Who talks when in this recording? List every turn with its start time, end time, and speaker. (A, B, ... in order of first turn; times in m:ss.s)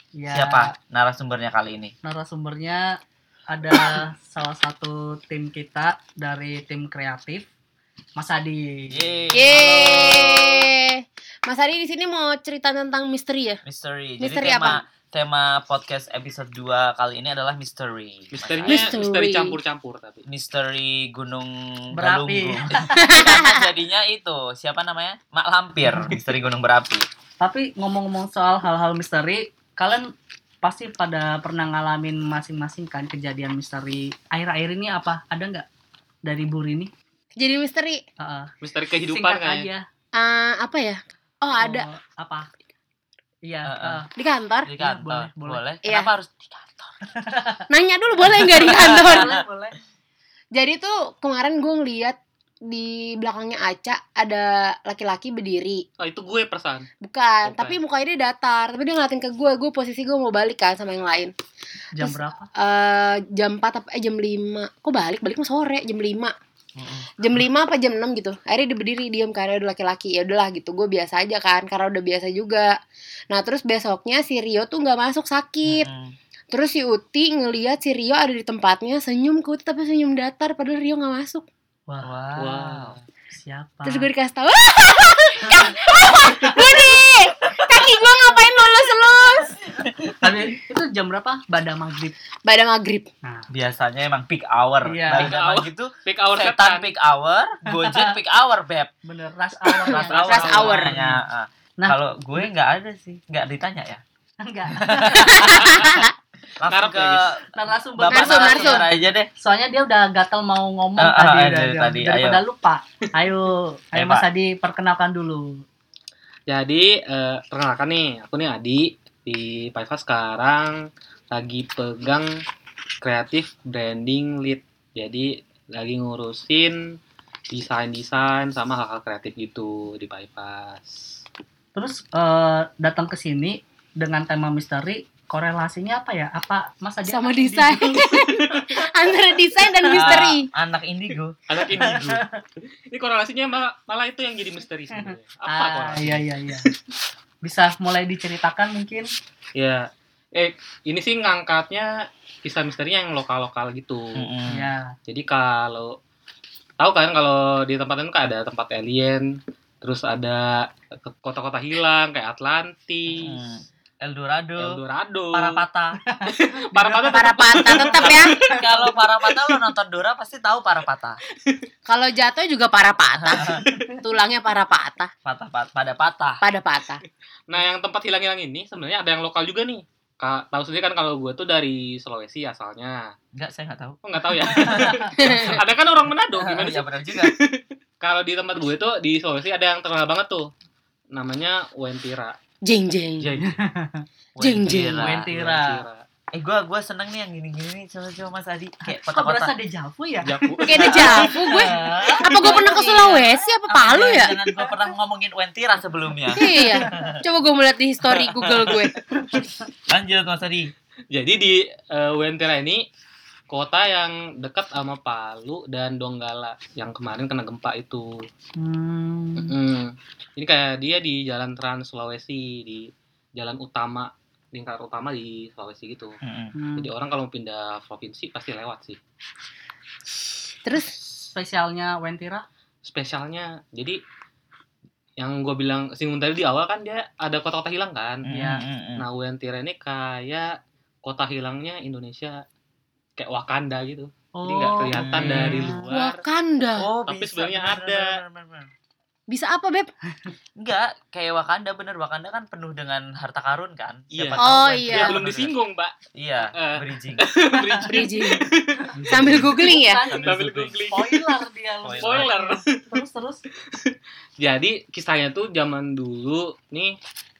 0:00.1-0:00.7 A
0:00.3-0:01.9 B
0:02.0-0:07.5 A
0:08.2-0:09.0 A
0:08.9-0:10.7 B
0:09.3-0:13.6 C
0:13.6-0:19.0 B
0:14.2-0:14.8 C
0:18.3-0:20.2 D
0:18.7-0:19.6 C
0:20.3-0:27.0 B
0:21.9-0:23.3 A
0:22.9-0:23.7 C
0:25.8-0:26.2 A
0:27.4-0:35.6 A
0:36.2-0:36.9 A
0:37.4-0:38.0 C
0:38.2-0:39.8 A
0:38.6-0:39.7 D
0:40.2-0:41.9 C
0:41.5-0:42.5 A
0:43.4-0:44.1 A
0:43.6-0:44.0 B
0:44.2-0:44.7 C
0:44.6-0:46.9 B
0:44.8-0:45.6 A
0:47.3-0:47.6 A
0:47.7-0:49.4 C
0:48.2-0:49.2 B
0:48.2-0:49.7 A
0:50.5-0:55.8 C
0:56.0-0:56.9 D
0:57.0-1:01.3 C
0:57.4-0:57.8 D
1:02.0-1:02.5 A
1:02.0-1:06.3 C
1:06.8-1:07.1 B
1:07.2-1:12.8 C
1:13.3-1:15.9 C
1:15.6-1:16.1 B
1:16.5-1:21.4 C
1:22.0-1:23.0 B
1:22.4-1:23.0 D
1:23.3-1:24.1 A
1:23.8-1:29.6 C
1:29.8-1:30.2 B
1:30.1-1:32.2 A
1:32.4-1:33.1 C
1:33.2-1:33.5 A
1:33.5-1:38.9 B
1:34.8-1:35.3 A
1:35.1-1:36.9 D
1:37.7-1:38.2 A
1:39.0-1:41.2 A
1:39.9-1:44.0 B
1:40.1-1:40.7 D
1:40.3-1:41.0 C
1:41.8-1:42.5 A
1:44.4-1:45.8 A
1:44.7-1:46.0 B
1:45.3-1:46.1 C
1:46.6-1:49.3 B
1:46.7-1:47.3 D
1:47.5-1:55.6 A
1:48.1-1:48.8 C
1:51.0-1:52.4 B
1:53.9-1:54.3 B
1:56.5-2:02.4 D
2:03.0-2:07.0 D
2:07.5-2:11.2 D
2:11.7-2:18.8 A
2:17.0-2:20.5 C
2:19.8-2:20.1 A
2:19.9-2:22.2 B
2:21.5-2:22.2 D
2:22.9-2:26.7 D
2:24.9-2:26.7 A
2:27.4-2:29.1 A
2:29.5-2:34.2 D
2:34.1-2:34.7 B
2:34.5-2:35.0 A
2:35.1-2:36.0 D
2:36.8-2:43.4 D
2:43.1-2:44.8 B
2:44.6-2:45.6 D
2:45.3-2:46.0 B
2:46.0-2:48.9 A
2:46.2-2:48.7 D
2:47.1-2:48.3 C
2:48.4-2:51.2 B
2:51.9-2:55.1 C
2:53.2-2:53.7 B
2:53.6-2:54.0 A
2:55.2-2:56.4 B
2:56.4-2:57.0 C
2:57.5-3:03.1 D
3:03.3-3:05.6 B
3:04.0-3:10.5 D
3:05.2-3:05.6 C
3:06.4-3:07.3 B
3:11.1-3:12.4 D
3:12.6-3:13.3 C
3:13.2-3:13.5 D
3:13.4-3:14.0 A
3:14.4-3:15.2 B
3:14.4-3:15.0 C
3:14.9-3:15.8 A
3:15.2-3:16.0 D
3:16.3-3:19.5 B
3:18.9-3:20.5 A
3:20.2-3:21.5 D
3:20.6-3:24.3 C
3:20.8-3:27.2 B
3:26.3-3:28.9 C
3:28.1-3:28.8 B
3:29.3-3:30.7 B
3:31.1-3:32.9 D
3:33.5-3:38.2 D
3:38.6-3:39.6 A
3:39.4-3:46.2 D
3:46.2-3:46.5 B
3:46.5-3:46.9 A
3:46.8-3:49.0 D
3:50.6-3:50.9 C
3:50.8-3:52.4 A
3:52.8-3:54.0 D
3:55.2-3:58.2 D
3:58.2-3:59.0 B
3:58.3-3:58.6 A
3:59.0-4:02.4 D
4:03.2-4:06.2 D
4:04.4-4:05.9 A
4:04.9-4:05.7 B
4:05.9-4:06.9 C
4:06.8-4:08.7 B
4:07.1-4:08.2 D
4:09.3-4:09.9 C
4:10.6-4:15.5 B
4:14.1-4:16.0 D
4:14.4-4:15.2 C
4:16.1-4:17.3 B
4:16.5-4:19.4 D
4:17.9-4:18.4 C
4:18.8-4:23.4 A
4:19.1-4:20.0 C
4:19.2-4:19.5 B
4:20.1-4:20.8 B
4:20.2-4:21.4 D
4:21.8-4:22.3 B
4:21.9-4:23.0 D
4:23.7-4:27.0 D